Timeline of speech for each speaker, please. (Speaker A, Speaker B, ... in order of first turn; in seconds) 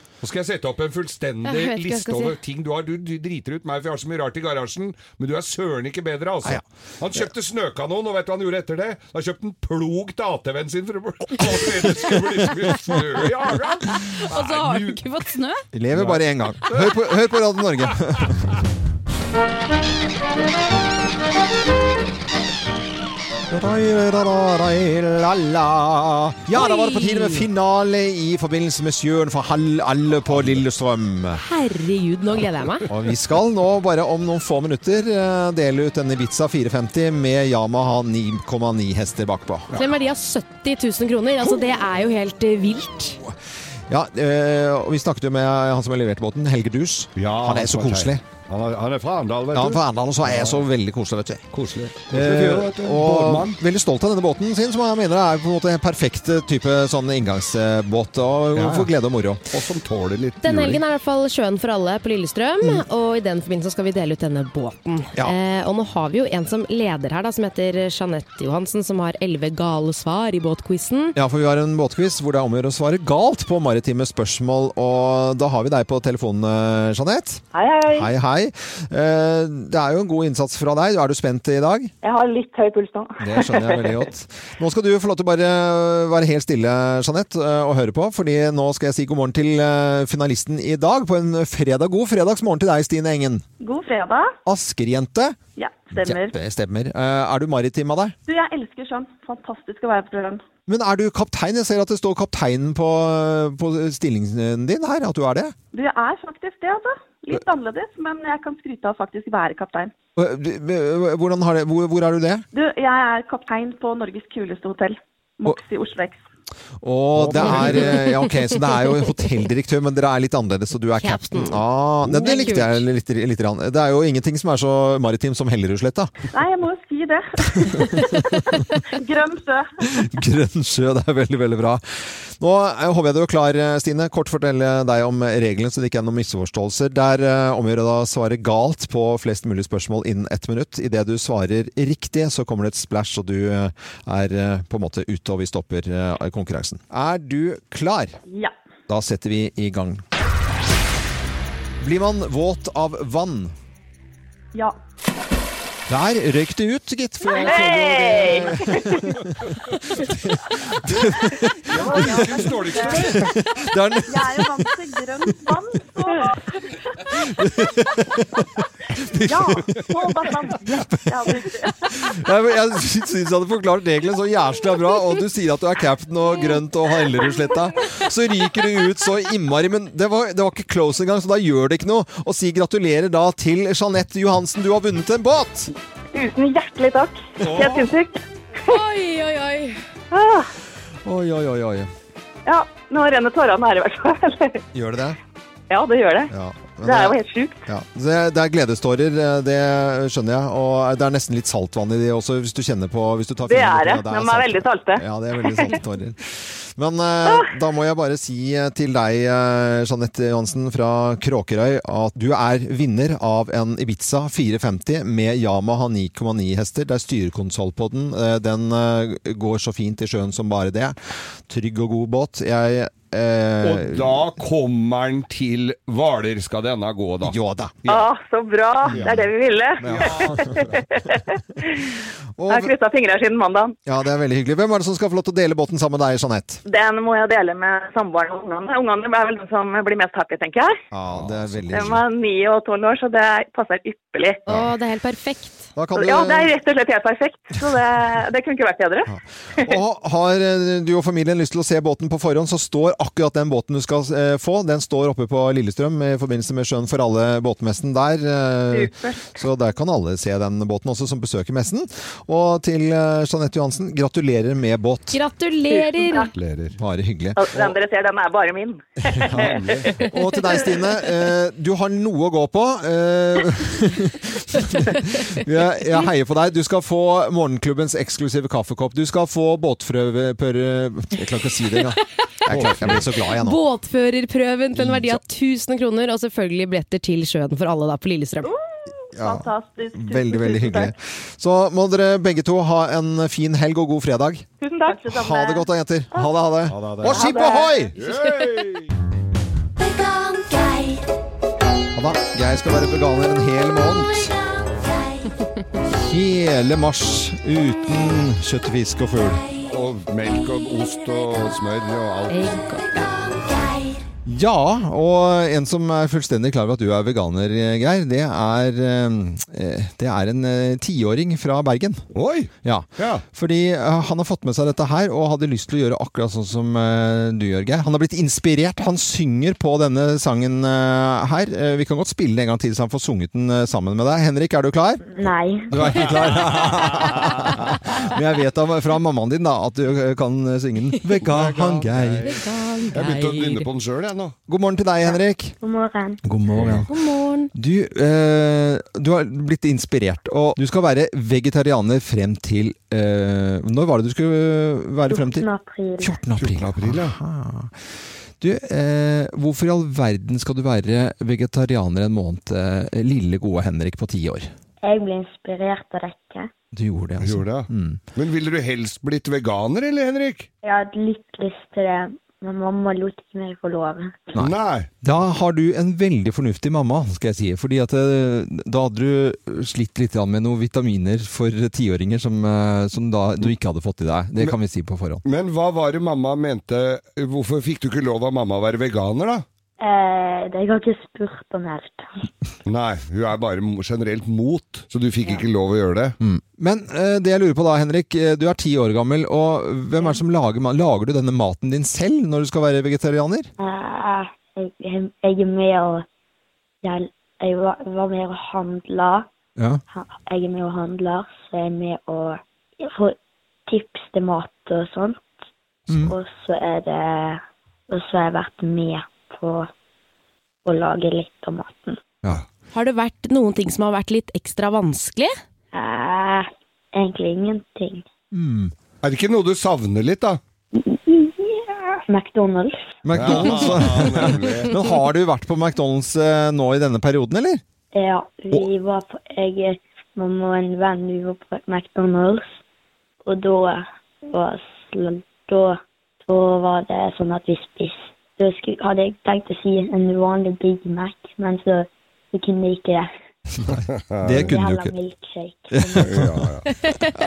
Speaker A: 0.2-15.0, 15.9-17.0, 30.3-30.6, 47.2-50.6, 51.5-53.6, 58.5-58.9, 59.5-60.8, 117.2-118.0, 161.7-163.4, 223.6-228.1, 228.9-229.2, 229.8-230.8, 241.1-241.9, 266.3-266.8, 269.3-269.9, 282.5-283.0, 296.7-297.3, 297.9-298.9, 309.6-312.6, 322.1-323.2, 336.1-336.9, 341.2-342.4, 342.9-344.4, 346.6-346.8, 356.4-357.2, 367.2-370.5, 374.4-374.9, 385.2-389.4, 392.7-396.2, 429.0-430.4, 433.1-434.8, 453.7-454.5, 456.0-456.7
Speaker B: 1.4-2.4, 13.9-15.7, 26.5-27.5, 31.4-32.9, 39.7-43.2, 60.4-71.2, 118.0-118.5, 121.0-122.8, 188.7-189.8, 244.5-245.7, 265.1-266.3, 275.0-275.3, 283.3-288.5, 312.3-313.3, 342.2-343.7, 346.9-347.5, 422.7-425.4, 456.9-457.1
Speaker C: 15.7-18.5, 23.5-31.4, 32.9-39.7, 43.9-48.2, 49.5-51.5, 52.1-59.5, 71.2-81.9, 83.2-93.5, 94.5-95.4, 96.0-98.2, 100.7-105.5, 110.2-112.5, 116.8-126.1, 129.9-148.2, 148.9-150.1, 151.8-153.6, 155.9-159.3, 160.0-164.7, 167.2-185.7, 187.4-187.9, 191.1-191.9, 194.7-195.2, 196.3-224.2, 227.2-227.8, 229.8-230.6, 232.4-232.7, 233.9-236.6, 240.9-242.0, 245.8-246.5, 249.1-265.2, 266.8-267.4, 269.2-283.6, 284.7-285.2, 289.2-294.5, 295.0-297.9, 301.9-304.4, 305.9-309.5, 314.3-322.0, 322.6-335.1, 335.7-342.3, 344.5-345.6, 346.2-346.9, 347.5-355.5, 356.0-357.8, 358.4-364.5, 366.7-368.0, 374.4-385.2, 396.2-403.5, 409.6-409.8, 415.9-416.1, 428.3-428.7, 433.0-437.6, 453.6-454.9, 455.7-456.5
Speaker D: 77.5-78.1, 82.0-84.1, 93.6-94.3, 95.6-96.4, 98.3-100.4, 105.7-109.9, 112.5-116.2, 126.3-128.1, 128.8-130.0, 148.3-148.5, 157.3-159.2, 161.7-163.1, 164.1-167.2, 169.2-172.1, 186.1-188.2, 190.1-190.5, 192.5-194.6, 195.7-196.3, 196.8-197.6, 203.5-205.8, 227.9-232.0, 232.5-233.8, 236.7-240.7, 241.7-244.4, 245.9-249.7, 258.7-259.3, 265.7-266.3, 267.4-270.0, 288.4-290.9, 294.6-296.3, 297.0-297.9
Speaker E: 335.1-336.0, 345.1-346.2, 355.1-356.2, 364.8-366.5, 370.6-374.4, 389.8-392.1, 403.6-406.1, 406.8-409.3, 409.9-413.2, 413.7-415.3, 415.9-419.7, 420.6-422.0, 425.7-428.1, 430.7-432.8, 437.9-442.6, 443.2-453.1, 454.5-456.1